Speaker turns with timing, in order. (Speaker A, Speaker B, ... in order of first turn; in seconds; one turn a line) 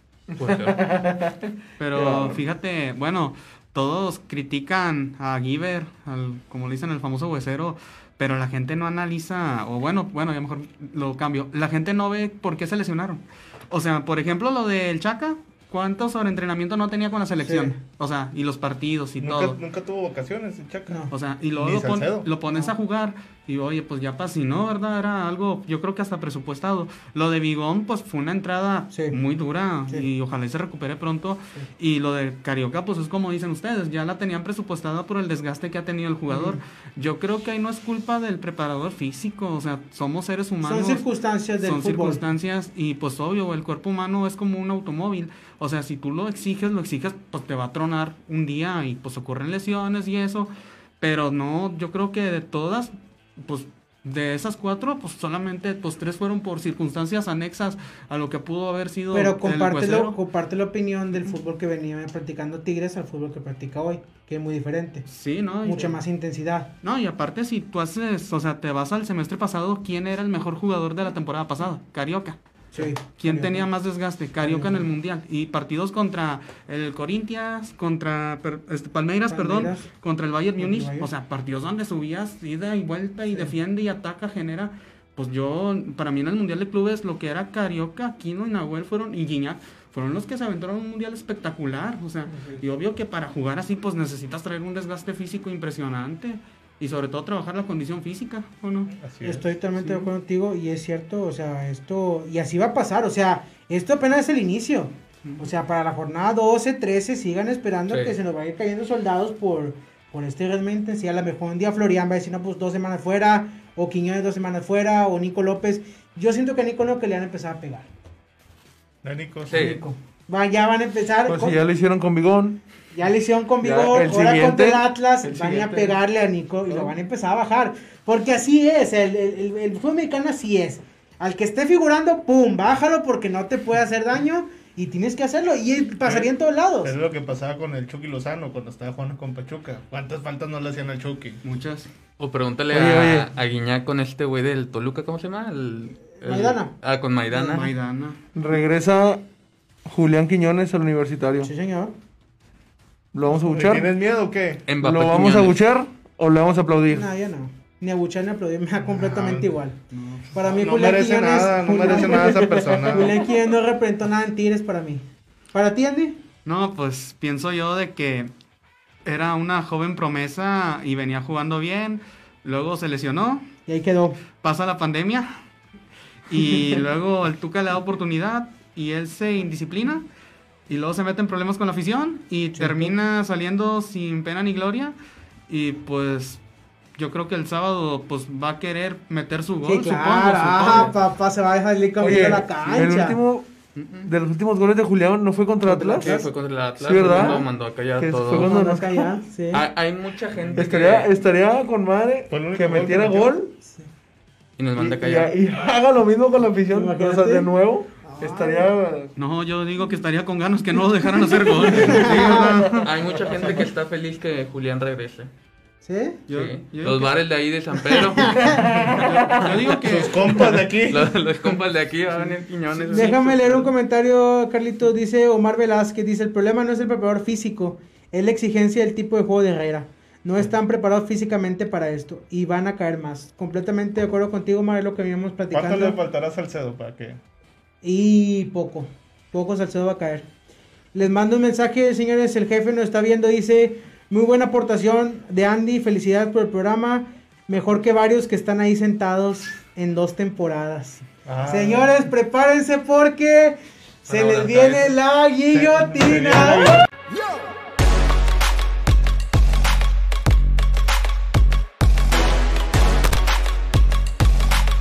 Speaker A: 0.3-2.4
Speaker B: 0.4-0.8
Speaker C: 1.8-19.6
Speaker D: 17.4-17.8
Speaker E: 19.2-21.1
Speaker C: 21.1-41.0
Speaker E: 21.6-22.3
Speaker D: 36.3-36.6
Speaker D: 40.6-42.2
Speaker C: 41.6-60.2
Speaker D: 59.1-65.1
Speaker C: 65.1-66.0
Speaker D: 65.6-66.7
Speaker C: 66.8-98.9
Speaker D: 72.7-73.7
Speaker D: 74.4-74.9
Speaker D: 79.3-79.9
Speaker D: 80.6-81.1
Speaker A: 92.3-92.6
Speaker E: 99.0-99.5
Speaker D: 99.2-117.9
Speaker C: 99.8-100.1
Speaker B: 107.9-108.2
Speaker E: 119.0-119.7
Speaker B: 119.5-119.8
Speaker D: 119.5-121.6
Speaker A: 121.3-122.6
Speaker D: 122.9-136.9
Speaker A: 123.6-126.0
Speaker A: 126.7-127.0
Speaker E: 136.0-141.4
Speaker C: 141.4-141.9
Speaker B: 142.2-147.7
Speaker A: 142.7-143.3
Speaker D: 146.2-146.7
Speaker C: 147.3-148.2
Speaker A: 148.3-149.2
Speaker A: 149.9-151.5
Speaker D: 151.4-151.9
Speaker A: 153.1-153.9
Speaker E: 153.4-154.7
Speaker B: 154.7-155.6
Speaker A: 154.8-157.1
Speaker D: 156.9-159.8
Speaker E: 158.8-159.5
Speaker C: 159.9-160.3
Speaker D: 160.3-166.2
Speaker E: 160.4-163.2
Speaker A: 162.2-162.8
Speaker C: 166.4-168.3
Speaker C: 169.1-173.5
Speaker D: 173.7-174.2
Speaker C: 174.3-175.4
Speaker C: 176.3-180.1
Speaker C: 180.7-184.9
Speaker D: 182.6-182.9
Speaker C: 185.5-186.4
Speaker C: 187.0-190.9
Speaker D: 189.6-193.2
Speaker B: 190.6-190.9
Speaker A: 192.0-193.5
Speaker C: 193.8-194.1
Speaker A: 194.1-196.1
Speaker D: 195.7-196.3
Speaker B: 195.7-198.6
Speaker A: 196.8-199.1
Speaker D: 197.0-197.4
Speaker D: 198.3-199.7
Speaker B: 199.5-201.1
Speaker A: 200.6-203.6
Speaker E: 202.3-203.4
Speaker B: 204.6-205.3
Speaker A: 204.8-209.1
Speaker D: 206.7-208.7
Speaker C: 209.2-212.4
Speaker D: 211.7-212.6
Speaker A: 211.7-213.2
Speaker B: 211.9-215.3
Speaker E: 212.2-212.8
Speaker D: 215.8-216.2
Speaker C: 216.3-217.2
Speaker B: 216.3-218.7
Speaker D: 217.9-218.7
Speaker C: 219.0-220.6
Speaker E: 219.8-221.2
Speaker B: 220.8-223.7
Speaker C: 222.7-223.1
Speaker D: 222.9-236.0
Speaker E: 235.5-237.2
Speaker D: 237.8-240.3
Speaker D: 240.9-256.8
Speaker E: 251.3-251.9
Speaker E: 254.1-254.9
Speaker E: 255.5-256.8